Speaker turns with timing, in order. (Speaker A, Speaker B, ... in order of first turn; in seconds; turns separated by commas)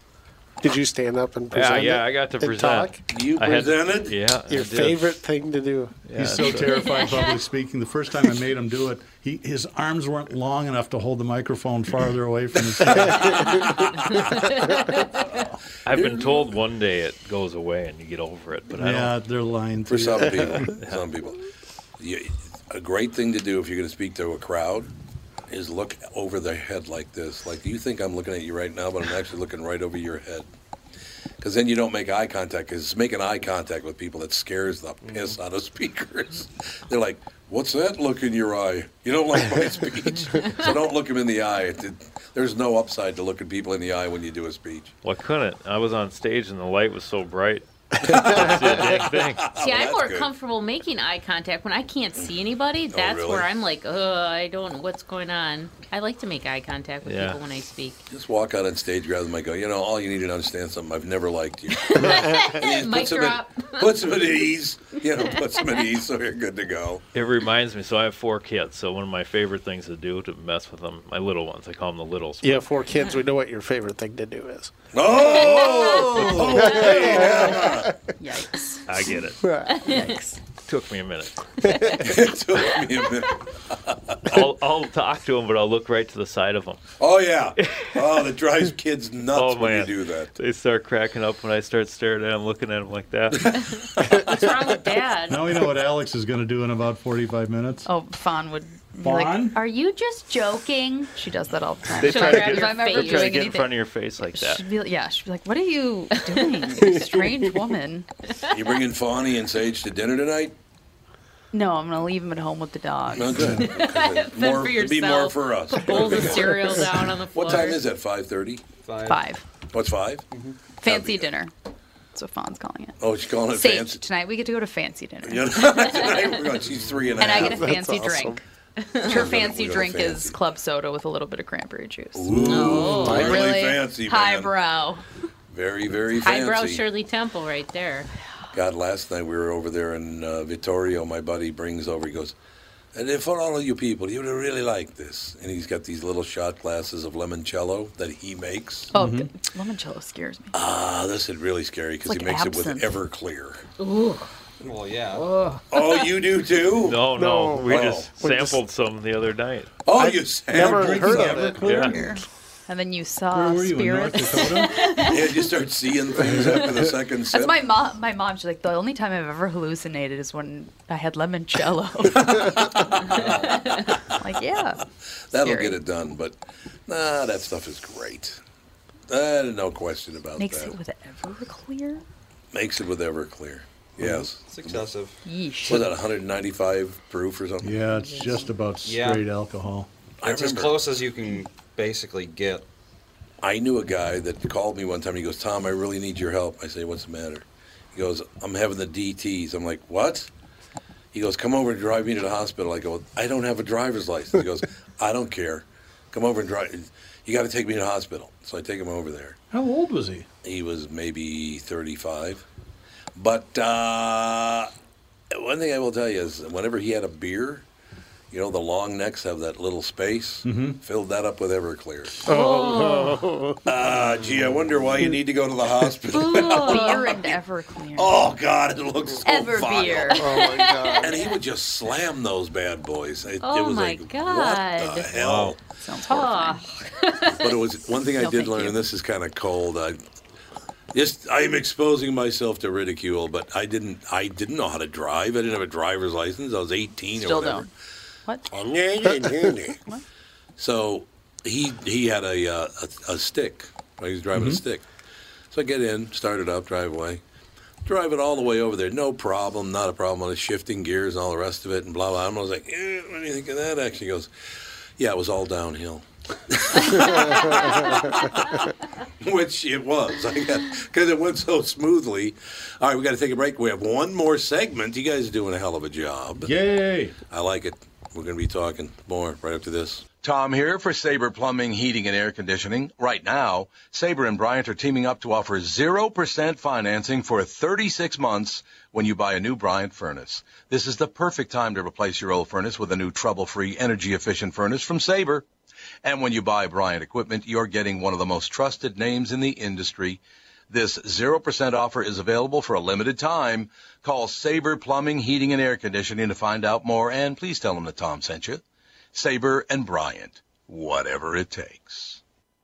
Speaker A: 0.6-3.0, Speaker B: 1.5-5.2, Speaker C: 3.1-4.2, Speaker A: 4.5-6.1, Speaker B: 6.1-6.8, Speaker D: 6.2-13.7, Speaker E: 6.6-7.4, Speaker C: 13.4-14.2, Speaker E: 14.5-15.4, Speaker D: 15.2-15.6, Speaker B: 15.8-19.1, Speaker D: 18.7-20.8, Speaker C: 19.9-21.4, Speaker B: 20.6-21.0, Speaker C: 22.0-24.9, Speaker C: 25.5-30.5, Speaker C: 31.4-44.9, Speaker F: 35.1-35.4, Speaker B: 45.0-49.5, Speaker C: 48.0-50.3, Speaker A: 48.2-48.8, Speaker E: 49.6-58.0, Speaker C: 52.9-53.5, Speaker B: 57.0-57.4, Speaker C: 58.1-67.0, Speaker E: 61.8-63.9, Speaker A: 62.0-62.6, Speaker B: 67.1-72.7, Speaker A: 72.4-74.7, Speaker C: 74.9-77.9, Speaker G: 75.3-78.8, Speaker A: 76.6-78.0, Speaker B: 78.9-79.4, Speaker A: 79.4-79.8, Speaker E: 79.7-80.1, Speaker G: 79.8-80.4, Speaker B: 80.7-81.9, Speaker A: 81.6-82.0, Speaker C: 82.0-84.2, Speaker B: 84.3-86.8, Speaker C: 87.0-90.3, Speaker B: 89.3-93.7, Speaker E: 93.8-95.5, Speaker D: 95.3-97.9, Speaker G: 97.8-108.1, Speaker D: 99.0-99.6, Speaker B: 102.0-104.6, Speaker E: 102.0-103.5, Speaker C: 108.5-110.5, Speaker G: 111.5-113.5, Speaker C: 113.1-116.7, Speaker D: 113.3-113.8, Speaker E: 113.5-117.8, Speaker G: 115.9-116.6, Speaker C: 117.3-118.6, Speaker F: 118.8-119.3, Speaker G: 119.1-119.5, Speaker C: 119.7-120.2, Speaker F: 120.3-120.6, Speaker G: 120.8-121.5, Speaker C: 120.8-121.3, Speaker G: 122.2-125.9, Speaker C: 123.0-124.0, Speaker C: 125.2-127.7, Speaker G: 127.2-128.4, Speaker A: 127.3-128.4, Speaker G: 129.0-135.1, Speaker C: 129.1-130.4, Speaker C: 132.2-134.5, Speaker E: 132.5-133.3, Speaker A: 133.0-133.4, Speaker C: 135.5-136.8, Speaker E: 136.2-138.1, Speaker C: 138.5-142.3, Speaker C: 142.9-148.9, Speaker G: 148.9-150.5, Speaker D: 148.9-149.3, Speaker C: 150.5-153.6, Speaker G: 152.0-153.0, Speaker E: 153.8-154.3, Speaker F: 154.6-155.3, Speaker C: 155.7-157.0, Speaker B: 156.8-159.7, Speaker A: 157.2-158.6, Speaker C: 157.7-158.1, Speaker C: 159.9-161.4, Speaker A: 160.0-162.1, Speaker D: 160.5-162.2, Speaker B: 161.7-161.9, Speaker G: 161.8-165.0, Speaker D: 163.3-164.8, Speaker E: 164.5-165.2, Speaker C: 165.1-167.6, Speaker G: 167.3-173.4, Speaker F: 173.1-173.6, Speaker G: 174.0-174.8, Speaker C: 175.3-176.3, Speaker G: 175.4-175.8, Speaker C: 176.9-178.4, Speaker C: 179.1-180.7, Speaker G: 180.4-182.0, Speaker C: 182.5-184.9, Speaker F: 184.0-185.2, Speaker G: 185.2-185.9, Speaker C: 185.7-187.8, Speaker D: 187.6-189.9, Speaker G: 188.1-188.4, Speaker F: 188.8-189.3, Speaker C: 190.2-190.8, Speaker F: 190.2-192.7, Speaker C: 193.4-197.4, Speaker C: 197.9-200.3, Speaker C: 201.1-209.3, Speaker D: 209.5-210.3, Speaker C: 210.4-212.4, Speaker C: 213.2-214.7, Speaker C: 215.3-217.6, Speaker C: 218.3-222.2, Speaker D: 220.4-220.8, Speaker A: 222.3-223.6, Speaker E: 222.3-223.2, Speaker C: 223.7-227.4, Speaker E: 226.1-227.1, Speaker G: 226.4-228.2, Speaker C: 227.9-230.1, Speaker G: 229.2-230.4, Speaker A: 230.1-231.2, Speaker E: 230.3-231.3, Speaker C: 231.0-235.6, Speaker E: 233.4-235.1, Speaker B: 235.2-235.6, Speaker G: 235.8-236.8, Speaker E: 236.1-237.5, Speaker C: 237.4-240.0, Speaker G: 238.2-238.8, Speaker C: 240.9-247.7, Speaker G: 247.2-247.7, Speaker C: 248.5-249.7, Speaker A: 249.1-249.5, Speaker C: 250.6-254.8, Speaker D: 254.3-254.6, Speaker C: 255.5-257.2, Speaker C: 257.9-264.3, Speaker C: 265.0-268.5, Speaker C: 269.2-276.5, Speaker D: 276.4-277.2, Speaker C: 277.3-295.5, Speaker C: 296.0-308.6, Speaker C: 309.1-312.2